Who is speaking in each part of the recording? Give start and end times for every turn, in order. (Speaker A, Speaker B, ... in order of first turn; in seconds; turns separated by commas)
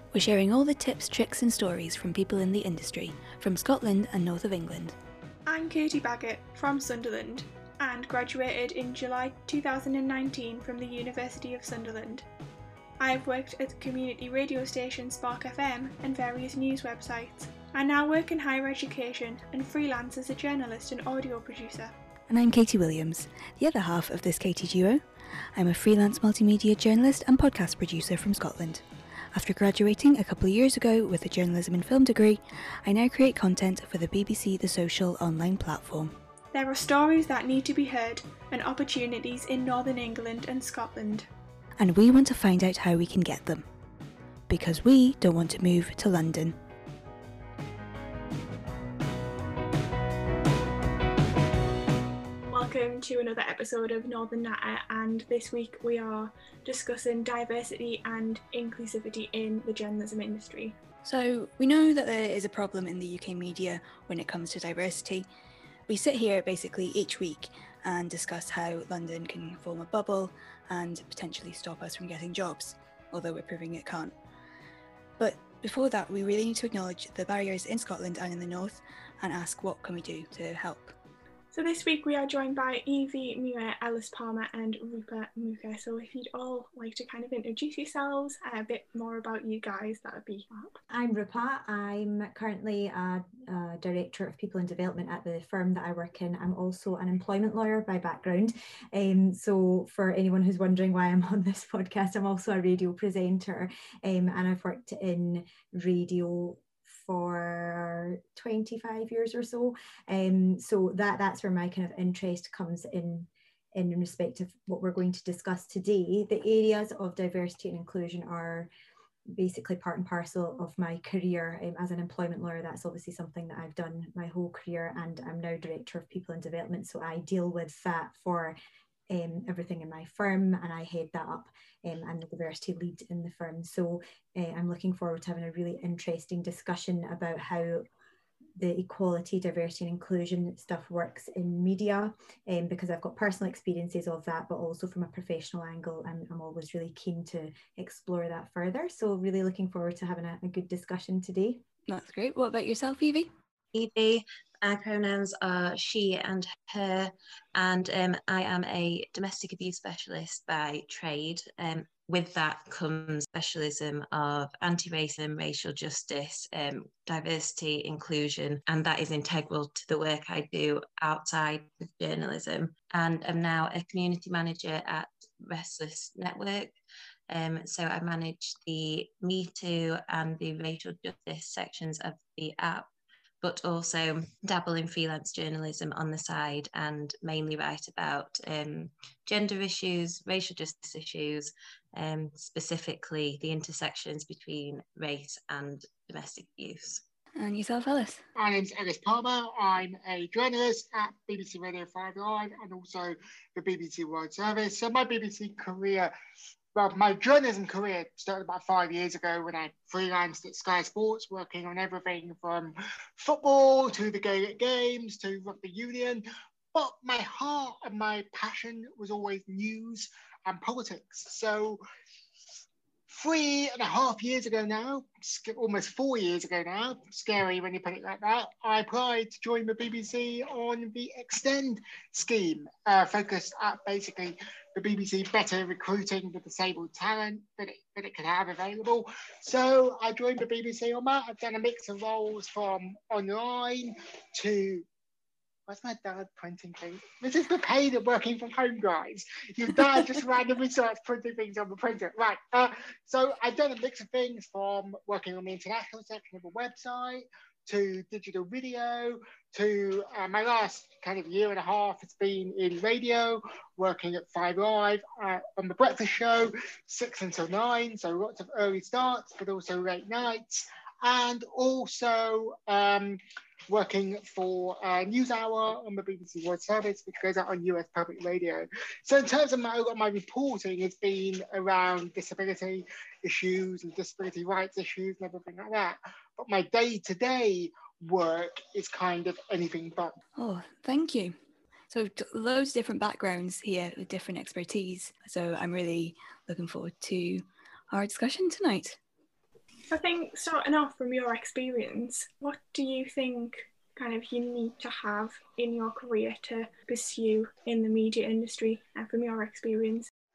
Speaker A: 0.1-5.0, Speaker B: 5.5-12.3, Speaker B: 13.0-21.9, Speaker A: 22.3-36.1, Speaker B: 36.5-41.3, Speaker A: 41.8-43.6, Speaker A: 44.5-46.5, Speaker B: 52.5-60.8, Speaker A: 61.0-65.2, Speaker A: 65.9-74.1, Speaker A: 75.2-80.9, Speaker B: 81.5-90.7, Speaker C: 90.9-118.7, Speaker C: 119.3-128.6, Speaker C: 129.1-137.9, Speaker C: 138.6-151.6, Speaker A: 151.9-153.3, Speaker D: 153.7-176.7, Speaker D: 177.3-182.9, Speaker D: 183.4-197.0, Speaker A: 197.4-198.2, Speaker E: 198.3-206.1, Speaker E: 206.7-221.8, Speaker E: 223.1-244.8, Speaker E: 245.7-290.1, Speaker A: 290.4-291.3, Speaker A: 291.9-299.0, Speaker B: 299.9-310.1